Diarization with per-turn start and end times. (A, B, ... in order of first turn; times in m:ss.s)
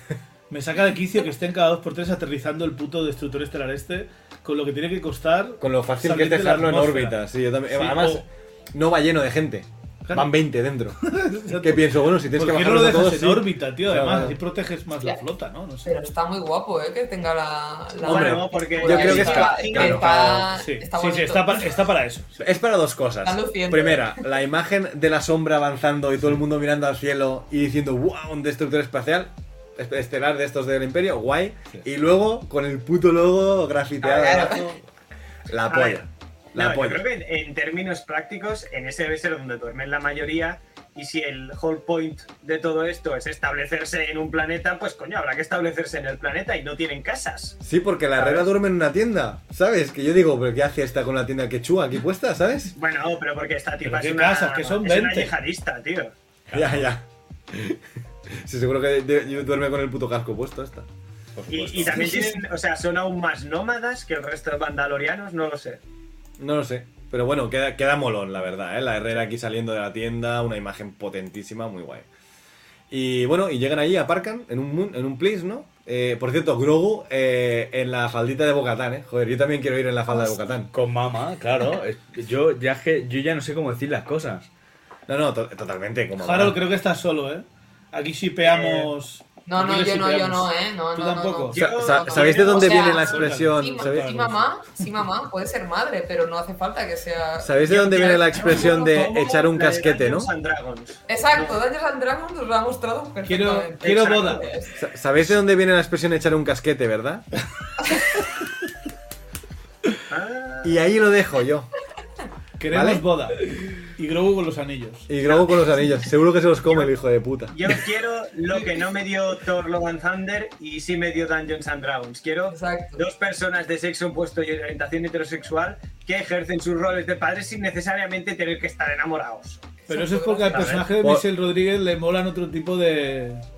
0:00.5-0:08.2 A
0:05.6-0:11.0 B
0:10.0-0:10.3 A
0:11.0-0:15.9 A
0:11.6-0:14.4 B
0:15.8-0:21.7 C
0:18.0-0:20.0 D
0:18.0-0:20.5 B
0:19.0-0:19.5 E
0:20.5-0:22.4 A
0:22.4-0:34.8 B
0:23.2-0:24.2 C
0:34.0-0:34.7 C
0:34.1-0:34.4 D
0:35.5-0:37.0 B
0:35.7-0:47.6 D
0:47.6-0:52.7 B
0:48.2-0:48.5 D
0:52.8-0:56.1 D
0:53.8-0:55.3 A
0:56.5-1:02.2 B
1:01.5-1:01.9 E
1:01.5-1:05.8 D
1:06.4-1:12.0 B
1:12.9-1:20.7 B
1:20.1-1:20.4 C
1:20.7-1:24.5 E
1:25.1-1:26.6 B
1:26.2-1:31.6 A
1:28.4-1:28.9 D
1:29.4-1:39.1 C
1:31.5-1:33.0 D
1:31.6-1:34.1 B
1:32.6-1:34.5 A
1:37.4-1:40.3 B
1:37.8-1:41.6 D
1:41.1-1:44.7 C
1:43.2-1:44.5 A
1:43.8-1:44.5 D
1:44.8-1:47.2 B
1:50.1-1:50.8 D
1:50.6-1:51.7 B
1:52.6-1:55.1 A
1:52.7-1:53.0 B
1:55.1-1:57.6 B
1:55.2-1:55.6 D
1:57.5-2:09.6 D
2:02.5-2:03.0 C
2:09.8-2:10.8 C
2:09.9-2:13.4 A
2:10.5-2:10.9 D